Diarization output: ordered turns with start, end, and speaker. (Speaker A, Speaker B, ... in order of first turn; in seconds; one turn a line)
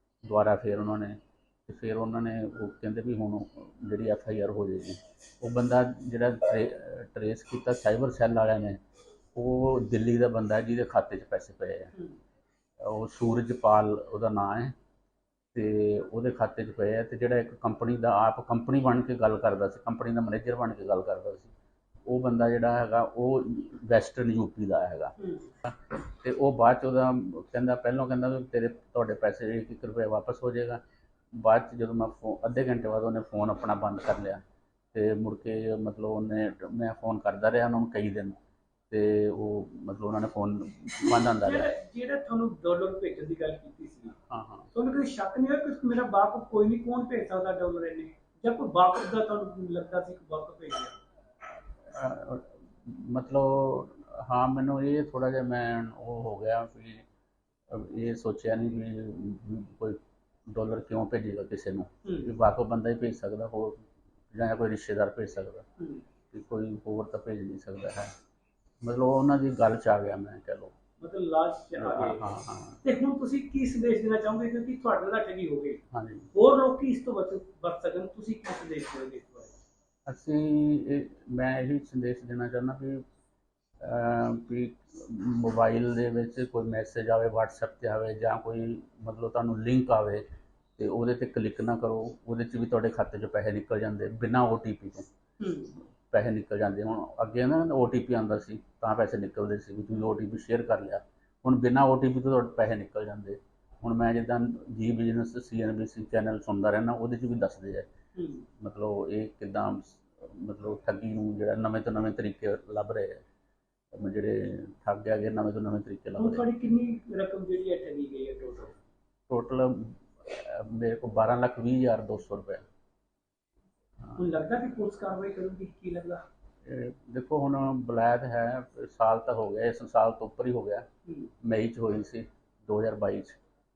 Speaker A: 0.2-8.8
Speaker A: 9.3-11.9
Speaker A: 12.8-14.7
Speaker A: 15.5-21.5
Speaker A: 22.1-30.8
Speaker A: 31.3-34.4
Speaker A: 34.9-38.4
Speaker A: 38.9-41.7
Speaker B: 41.1-44.1
Speaker A: 44.3-44.7
Speaker B: 44.7-51.0
Speaker A: 51.8-57.0
Speaker A: 57.7-60.0
Speaker A: 60.5-65.7
Speaker B: 62.0-62.3
Speaker A: 66.3-68.1
Speaker A: 68.8-70.7
Speaker B: 71.0-72.2
Speaker A: 71.8-72.8
Speaker B: 72.8-75.8
Speaker A: 75.9-76.3
Speaker B: 76.3-79.5
Speaker A: 80.1-83.0
Speaker A: 83.8-90.2
Speaker A: 90.8-95.0
Speaker B: 95.4-95.7
Speaker A: 96.0-107.9
Speaker B: 108.2-108.5
Speaker A: 108.6-113.2
Speaker A: 113.9-116.5
Speaker B: 116.2-118.8
Speaker A: 119.3-122.6
Speaker B: 124.2-126.2
Speaker A: 126.6-130.9
Speaker A: 131.4-133.4